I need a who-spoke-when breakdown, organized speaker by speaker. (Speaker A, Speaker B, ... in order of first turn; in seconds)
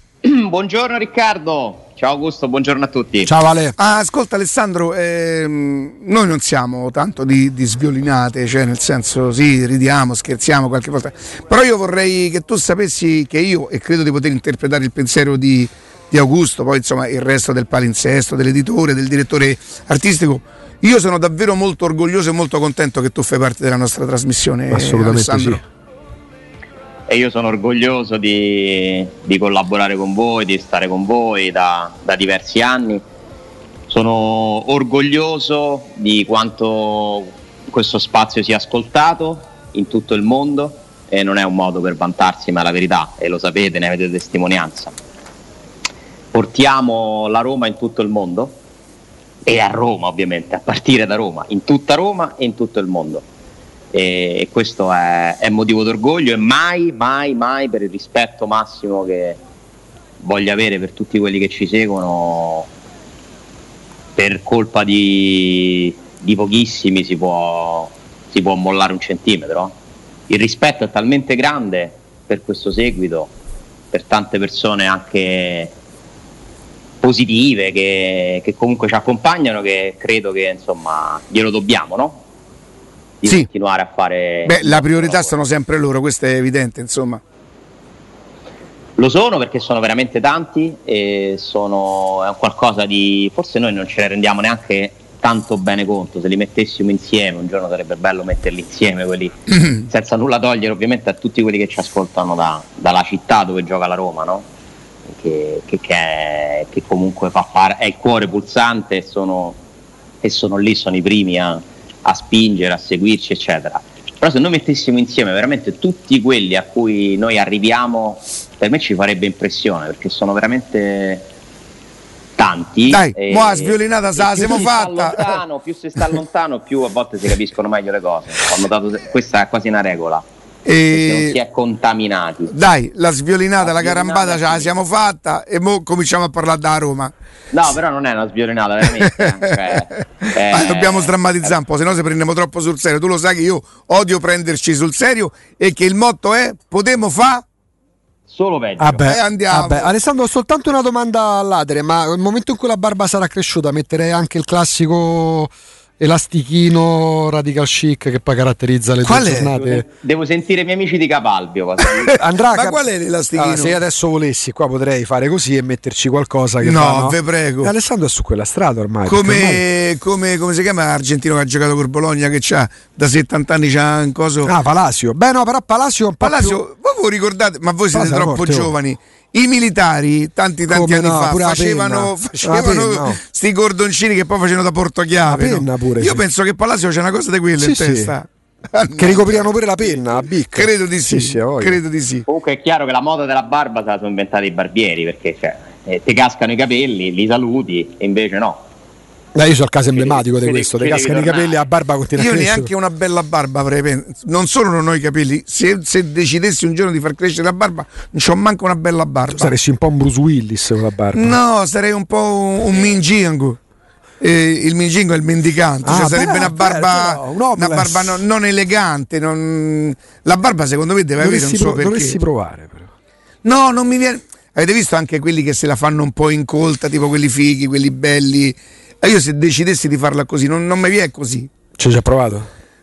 Speaker A: 0.2-3.3, 27.1-33.0, 33.9-45.0, 46.3-48.6, 49.5-53.2, 53.9-59.4, 60.2-62.7, 64.2-69.8, 70.3-73.3, 73.9-75.7, 77.0-82.2, 83.2-85.4, 89.0-104.5, 105.1-109.6, 110.2-121.3, 122.4-130.2, 130.9-132.5, 133.6-134.8, 137.5-141.5, 148.3-149.1, 159.5-162.2, 192.2-198.6, 199.9-201.6
Speaker B: 3.2-3.8, 24.7-25.6, 148.8-159.8, 162.1-162.8, 163.3-169.6, 174.4-176.6, 177.9-178.7, 180.7-183.2, 185.2-186.2, 187.6-188.1, 188.9-191.8, 199.3-202.7, 209.3-211.4, 215.8-218.2, 221.2-222.9, 231.8-232.5
Speaker C: 3.8-25.6, 84.4-87.2, 122.9-125.4, 130.6-131.4, 132.5-137.1, 139.0-147.4, 149.0-149.9, 159.0-159.5, 162.1-163.8, 166.6-167.7, 169.1-174.5, 176.2-192.2, 202.2-209.5, 211.1-213.6, 214.2-222.2, 223.4-231.5